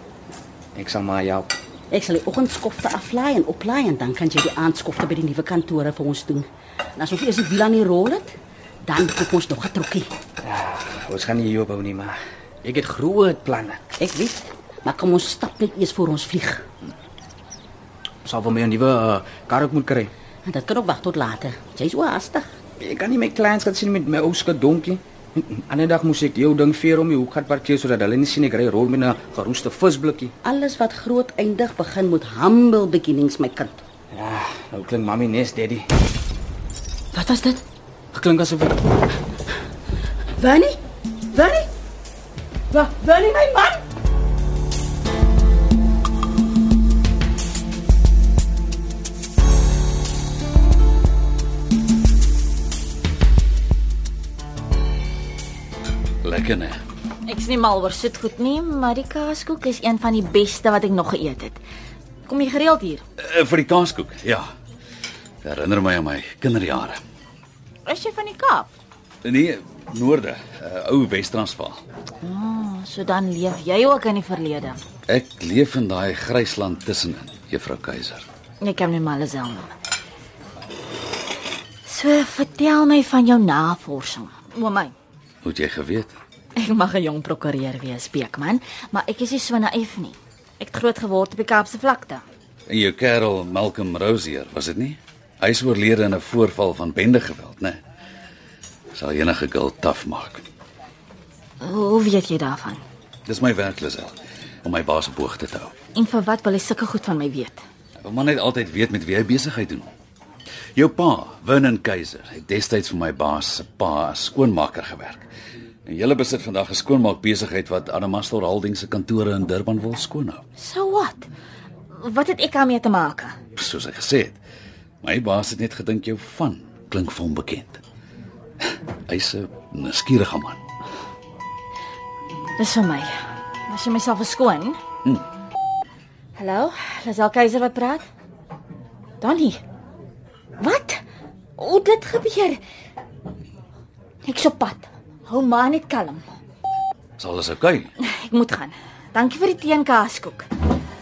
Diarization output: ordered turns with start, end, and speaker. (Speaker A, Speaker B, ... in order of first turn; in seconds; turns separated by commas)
Speaker A: 0.7-1.5, Speaker B: 1.9-10.1, Speaker A: 10.4-13.8, Speaker B: 14.0-16.6, Speaker A: 18.2-20.1, Speaker B: 20.4-22.4, Speaker A: 22.8-30.3, Speaker B: 30.4-33.8, Speaker A: 34.1-35.9, Speaker B: 37.1-37.6, Speaker A: 38.1-38.9, Speaker B: 40.4-40.8, Speaker B: 41.3-41.7, Speaker B: 42.7-43.8, Speaker C: 56.2-56.8, Speaker D: 57.2-61.6, Speaker D: 62.3-63.0, Speaker C: 63.2-64.5, Speaker C: 65.4-67.0, Speaker D: 67.8-68.7, Speaker C: 69.2-71.8, Speaker D: 72.2-74.8, Speaker C: 75.1-78.2, Speaker D: 78.6-79.7, Speaker D: 81.8-84.9, Speaker C: 85.4-86.2, Speaker D: 86.5-92.2, Speaker C: 92.7-97.8, Speaker C: 98.9-100.4, Speaker D: 101.6-102.8, Speaker C: 103.2-105.7, Speaker D: 105.9-107.6, Speaker C: 108.0-109.9, Speaker C: 110.8-115.2, Speaker C: 115.8-120.4, Speaker D: 120.6-121.3, Speaker D: 122.0-123.3, Speaker C: 123.5-124.4, Speaker C: 125.0-127.8, Speaker C: 129.1-130.6, Speaker D: 132.6-134.8, Speaker D: 136.3-138.1, Speaker D: 139.2-139.6, Speaker D: 140.6-141.0, Speaker D: 141.6-142.6, Speaker D: 144.2-146.2, Speaker C: 147.2-147.9, Speaker D: 148.0-150.5